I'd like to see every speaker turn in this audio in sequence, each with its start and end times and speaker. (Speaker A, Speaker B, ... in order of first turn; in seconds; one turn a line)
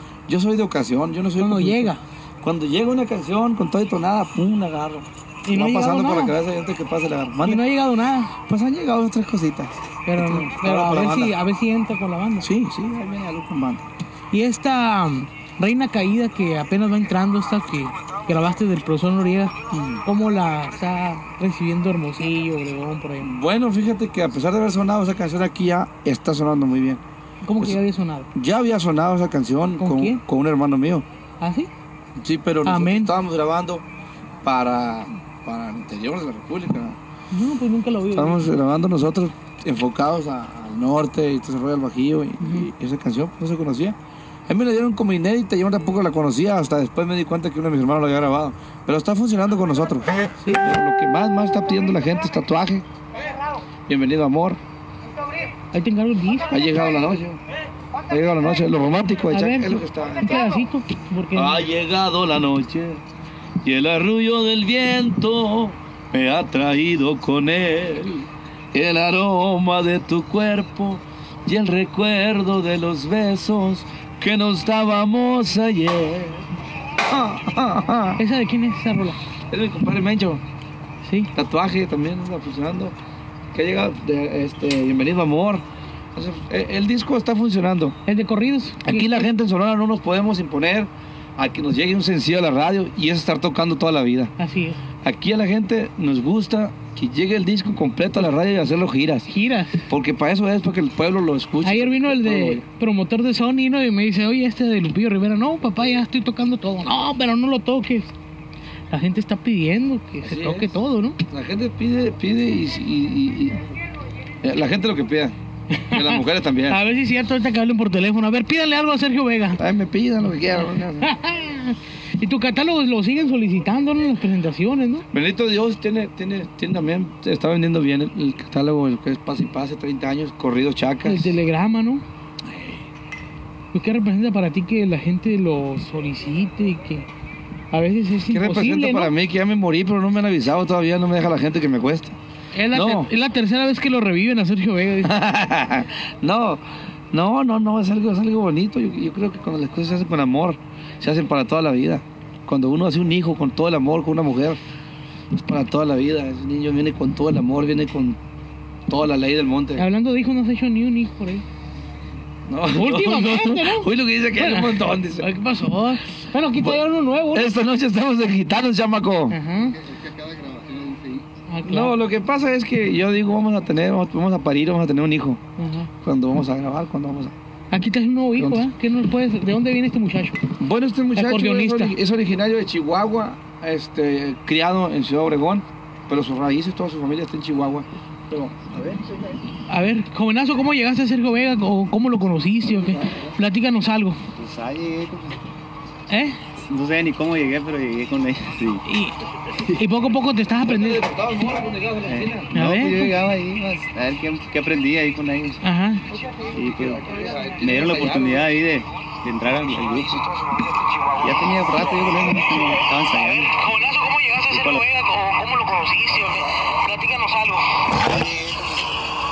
Speaker A: 0.3-7.6
Speaker B: 1.4-2.0
Speaker B: 5.5-6.3
Speaker B: 7.4-8.3
Speaker A: 8.4-11.3
Speaker B: 10.1-12.5
Speaker A: 12.4-13.9
Speaker B: 14.3-23.3
Speaker A: 19.7-20.0
Speaker A: 23.2-27.0
Speaker B: 27.4-28.3
Speaker A: 28.4-31.1
Speaker B: 29.8-30.2
Speaker B: 31.4-31.7
Speaker A: 32.2-33.9
Speaker B: 32.6-33.1
Speaker A: 34.4-37.0
Speaker B: 37.3-38.4
Speaker A: 38.1-44.0
Speaker B: 42.4-42.7
Speaker A: 44.5-52.9
Speaker B: 50.4-50.7
Speaker A: 53.9-54.6
Speaker B: 55.7-56.8
Speaker A: 56.5-57.4
Speaker A: 58.1-60.5
Speaker B: 59.2-61.6
Speaker A: 61.3-63.0
Speaker A: 63.6-78.2
Speaker B: 78.2-79.2
Speaker A: 79.5-80.4
Speaker B: 81.0-81.3
Speaker A: 81.3-83.0
Speaker A: 83.5-85.6
Speaker A: 86.2-88.0
Speaker B: 88.1-89.3
Speaker A: 88.8-94.3
Speaker B: 94.4-94.8
Speaker A: 95.0-99.3
Speaker B: 99.3-99.8
Speaker A: 99.9-102.7
Speaker B: 101.6-108.1
Speaker B: 108.9-111.2
Speaker A: 110.2-110.8
Speaker A: 111.3-113.7
Speaker A: 114.4-115.4
Speaker B: 115.7-119.6
Speaker A: 115.9-116.8
Speaker A: 119.6-121.1
Speaker B: 120.5-125.1
Speaker A: 125.1-131.3
Speaker B: 131.0-132.0
Speaker A: 132.5-132.9
Speaker B: 133.7-137.1
Speaker B: 137.7-139.1
Speaker A: 138.3-142.2
Speaker B: 142.6-145.1
Speaker A: 142.7-143.1
Speaker A: 145.0-154.6
Speaker A: 155.3-158.2
Speaker A: 158.9-159.9
Speaker B: 159.8-161.4
Speaker A: 162.5-165.3
Speaker B: 162.7-167.6
Speaker A: 167.3-169.4
Speaker B: 169.3-169.9
Speaker B: 171.5-171.9
Speaker A: 171.7-175.4
Speaker B: 175.6-175.9
Speaker A: 176.0-177.3
Speaker B: 177.7-180.4
Speaker A: 178.4-178.7
Speaker A: 180.6-188.7
Speaker B: 181.2-181.9
Speaker B: 189.7-194.2
Speaker C: 194.4-195.4
Speaker B: 196.1-196.4
Speaker C: 196.6-198.8
Speaker B: 198.8-201.1
Speaker A: 200.7-202.5
Speaker C: 202.0-205.6
Speaker B: 202.5-203.2
Speaker B: 205.6-206.2
Speaker A: 206.4-208.6
Speaker C: 206.5-207.1
Speaker C: 207.6-210.3
Speaker A: 210.3-211.1
Speaker C: 211.2-213.6
Speaker B: 213.2-217.9
Speaker C: 214.5-214.8